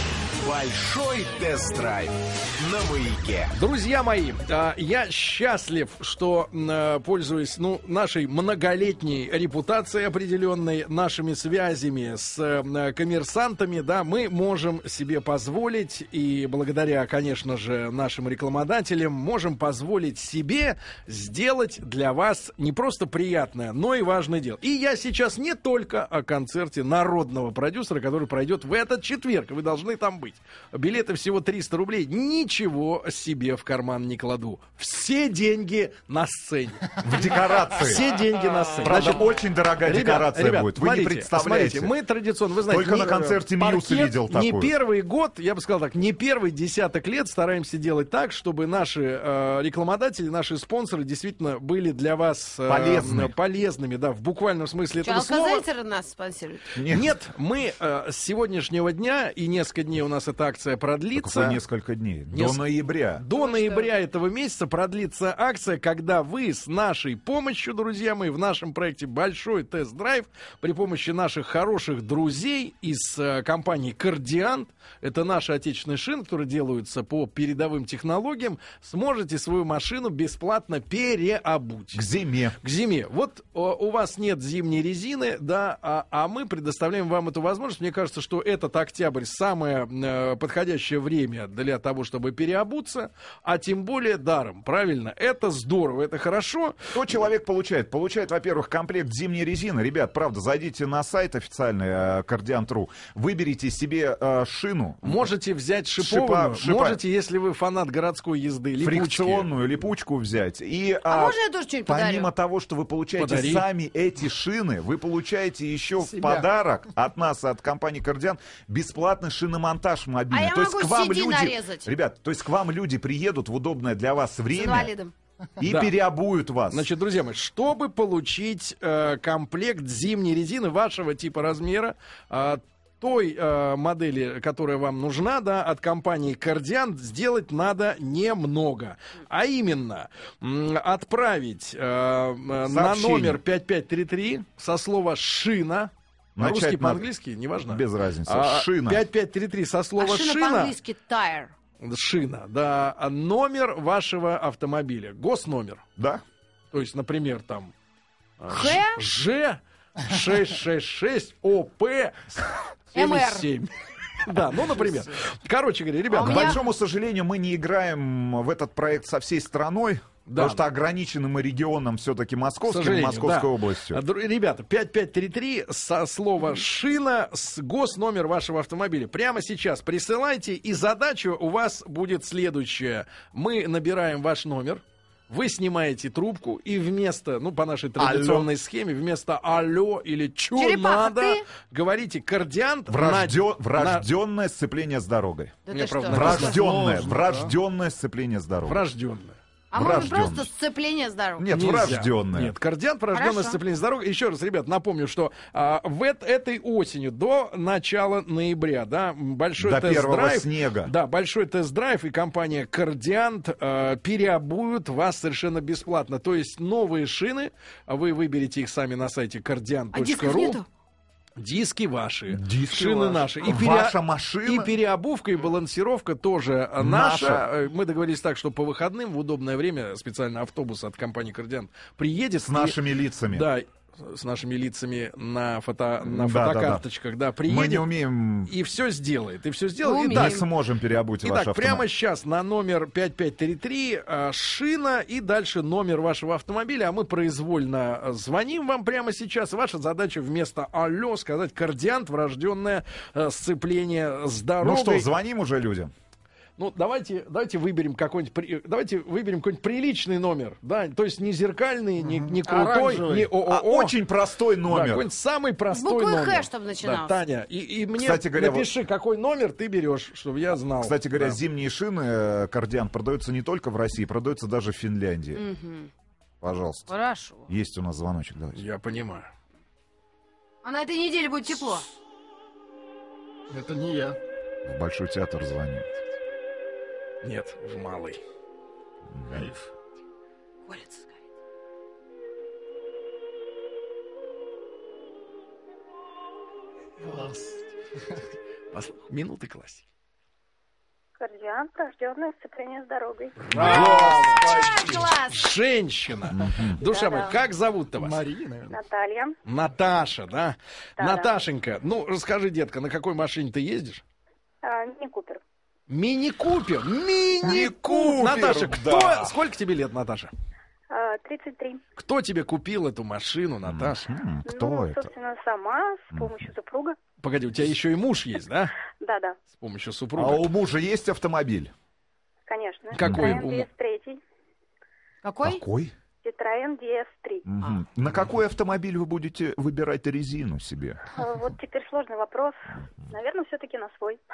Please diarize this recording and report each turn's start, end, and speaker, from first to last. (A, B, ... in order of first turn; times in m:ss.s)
0:00.4-0:03.6 A
0:03.6-0:39.3 B
0:37.0-0:38.1 C
0:38.8-0:41.9 C
0:39.8-0:55.7 B
0:42.7-0:44.7 C
0:52.7-0:53.3 C
0:55.0-0:56.7 D
0:56.8-0:57.2 C
0:56.9-1:01.6 B
1:01.2-1:03.2 C
1:02.3-1:22.0 B
1:03.3-1:03.9 D
1:21.9-1:22.6 C
1:22.6-1:37.0 B
1:36.9-1:45.3 C
1:45.0-1:49.5 B
1:46.0-1:47.0 C
1:48.8-2:04.9 C
1:51.1-1:52.3 D
1:53.2-1:53.6 B
1:56.2-1:56.4 E
2:00.3-2:01.9 D
2:04.5-2:05.1 D
2:05.6-2:06.9 C
2:05.6-2:05.9 B
2:06.7-2:30.8 B
2:22.6-2:23.4 C
2:26.4-2:27.1 C
2:27.7-2:29.0 C
2:30.0-2:31.5 D
2:31.8-2:35.8 B
2:36.0-2:36.2 C
2:36.7-2:37.7 B
2:38.4-2:42.4 B
2:38.5-2:39.0 D
2:42.9-2:43.5 D
2:42.9-2:46.6 B
2:46.1-2:46.6 D
2:46.2-2:54.0 C
2:50.3-2:50.6 B
2:52.7-3:14.1 B
3:08.0-3:08.5 C
3:10.5-3:11.5 D
3:12.9-3:18.8 C
3:15.7-3:16.8 D
3:15.7-3:17.3 B
3:16.6-3:17.3 E
3:18.7-3:19.4 B
3:19.7-3:21.5 D
3:19.7-3:20.5 C
3:21.4-3:22.6 C
3:21.5-3:40.6 B
3:23.1-3:23.6 D
3:29.6-3:30.9 C
3:39.9-3:40.6 D
3:41.4-3:57.9 B
3:42.3-3:44.7 C
3:46.8-3:47.5 C
3:52.4-3:53.5 C
3:56.0-3:56.8 C
3:57.4-3:58.5 C
3:58.5-4:00.5 B
3:59.8-4:00.5 D
4:00.1-4:01.8 C
4:01.2-4:15.1 B
4:14.6-4:15.9 C
4:16.6-4:24.0 B
4:22.0-4:23.3 E
4:23.4-4:25.1 C
4:24.7-4:31.4 B
4:25.7-4:27.2 D
4:28.0-4:28.7 C
4:30.8-4:35.4 C
4:35.3-4:35.9 D
4:36.4-4:36.9 C
4:36.9-4:37.5 D
4:37.5-4:38.6 C
4:38.6-4:39.3 B
4:40.6-4:41.8 D
4:43.5-4:44.2 E
4:44.6-4:46.0 C
4:47.2-4:48.2 B
4:49.1-4:49.5 C
4:49.3-4:49.7 E
4:50.7-4:51.1 D
4:57.0-4:57.6 E
4:58.7-4:59.9 B
5:01.2-5:03.5 F
5:03.4-5:04.6 B
5:03.5-5:04.3 C
5:03.5-5:05.1 E
5:04.6-5:05.4 D
5:05.3-5:08.2 B
5:06.3-5:06.8 C
5:06.8-5:07.4 F
5:08.0-5:08.8 E
5:08.7-5:09.4 F
5:09.5-5:14.0 B
5:11.0-5:11.3 F
5:14.6-5:15.4 F
5:15.9-5:20.3 B
5:17.4-5:19.4 C
5:20.9-5:21.8 F
5:22.0-5:24.1 B
5:23.6-5:25.1 C
5:24.4-5:27.0 F
5:26.1-5:26.5 C
5:27.2-5:28.8 B
5:29.0-5:29.4 F
5:29.5-5:30.5 B
5:30.2-5:31.7 C
5:32.5-5:34.2 F
5:32.9-5:33.7 B
5:33.0-5:33.4 C
5:35.2-5:35.6 D
5:35.4-5:35.9 C
5:36.2-5:37.5 F
5:37.5-5:41.0 C
5:41.1-5:44.2 F